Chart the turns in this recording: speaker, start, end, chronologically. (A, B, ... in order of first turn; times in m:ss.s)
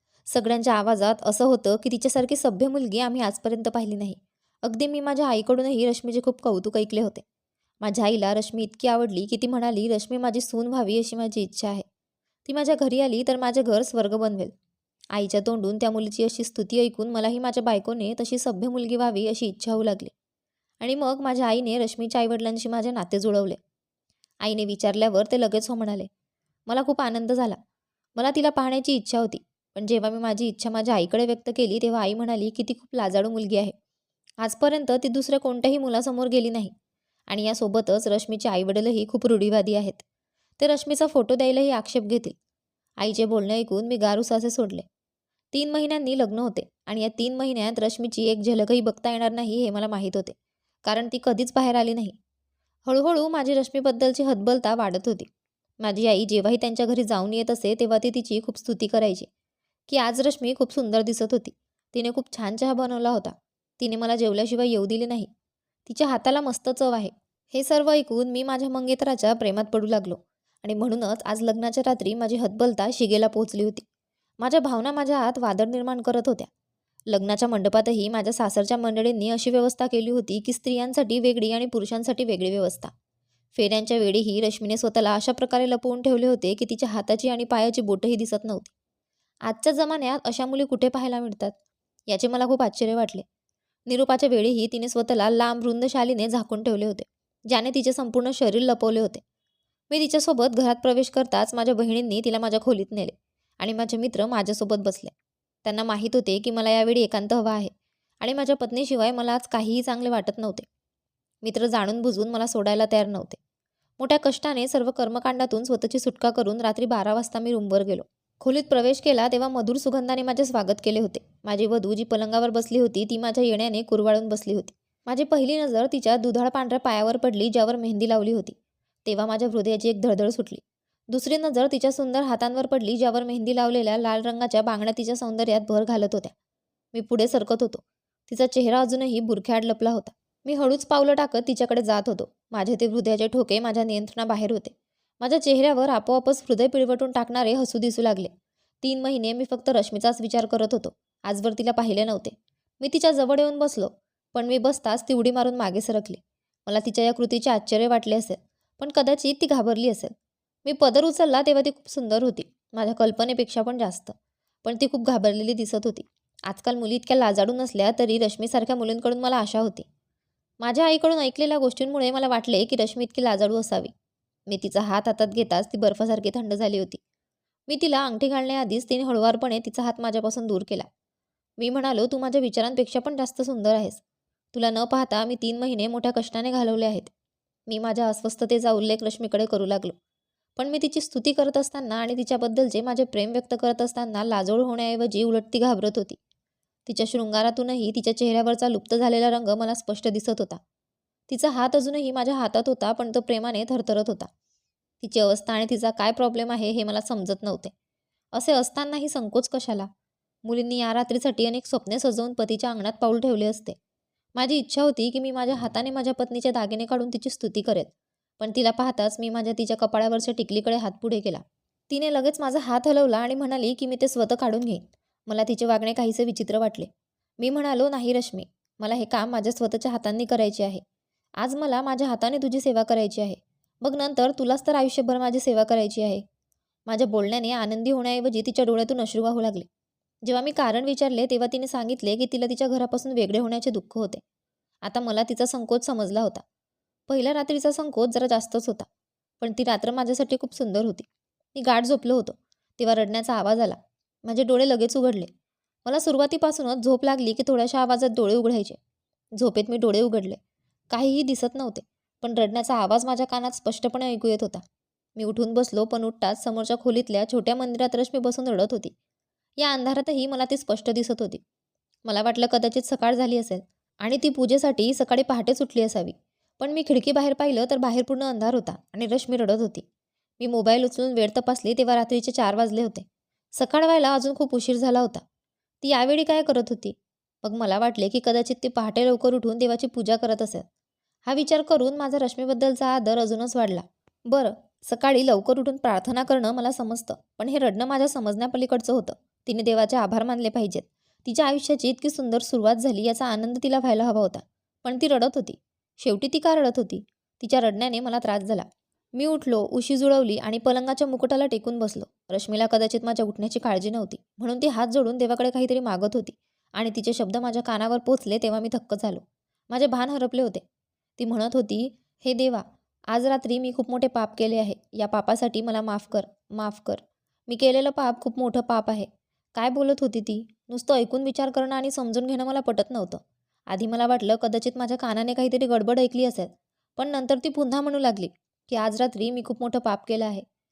0:00.3-0:07.2 A
0:07.8-0:11.8 A
0:12.4-0:14.5 A
0:15.1-0:20.1 A
0:20.8-0:23.6 A
0:24.4-0:26.1 A
0:26.7-0:27.6 A
0:28.2-0:33.7 A
0:34.4-0:36.7 A
0:37.3-0:40.0 A
0:40.6-0:42.3 A
0:43.0-0:44.8 A
0:45.5-0:52.2 A
0:52.8-0:55.3 A
0:55.8-0:59.3 A
0:59.9-1:05.3 A
1:05.8-1:13.8 A
1:14.4-1:16.5 A
1:17.1-1:22.9 A
1:23.5-1:28.7 A
1:29.4-1:31.5 A
1:32.1-1:33.2 A
1:33.9-1:39.2 A
1:39.9-1:50.6 A
1:51.4-1:53.4 A
1:54.0-2:16.3 A
2:16.9-2:28.3 A
2:28.8-2:40.1 A
2:40.6-2:49.8 A
2:50.6-2:53.9 A
2:54.5-2:57.0 A
2:57.7-3:00.9 A
3:01.6-3:04.0 A
3:04.5-3:07.1 A
3:07.7-3:09.9 A
3:10.6-3:16.2 A
3:16.8-3:20.6 A
3:21.3-3:24.3 A
3:25.0-3:27.7 A
3:28.3-3:29.9 A
3:30.4-3:33.8 A
3:34.4-3:50.8 A
3:51.4-3:56.2 A
3:56.9-3:59.7 A
4:00.2-4:04.2 A
4:04.8-4:06.4 A
4:07.1-4:08.9 A
4:09.4-4:15.3 A
4:15.8-4:18.8 A
4:19.4-4:20.4 A
4:20.9-4:24.6 A
4:25.2-4:28.9 A
4:29.6-4:31.4 A
4:32.0-4:39.8 A
4:40.4-4:45.2 A
4:45.8-4:50.6 A
4:51.2-5:20.6 A
5:21.2-5:40.4 A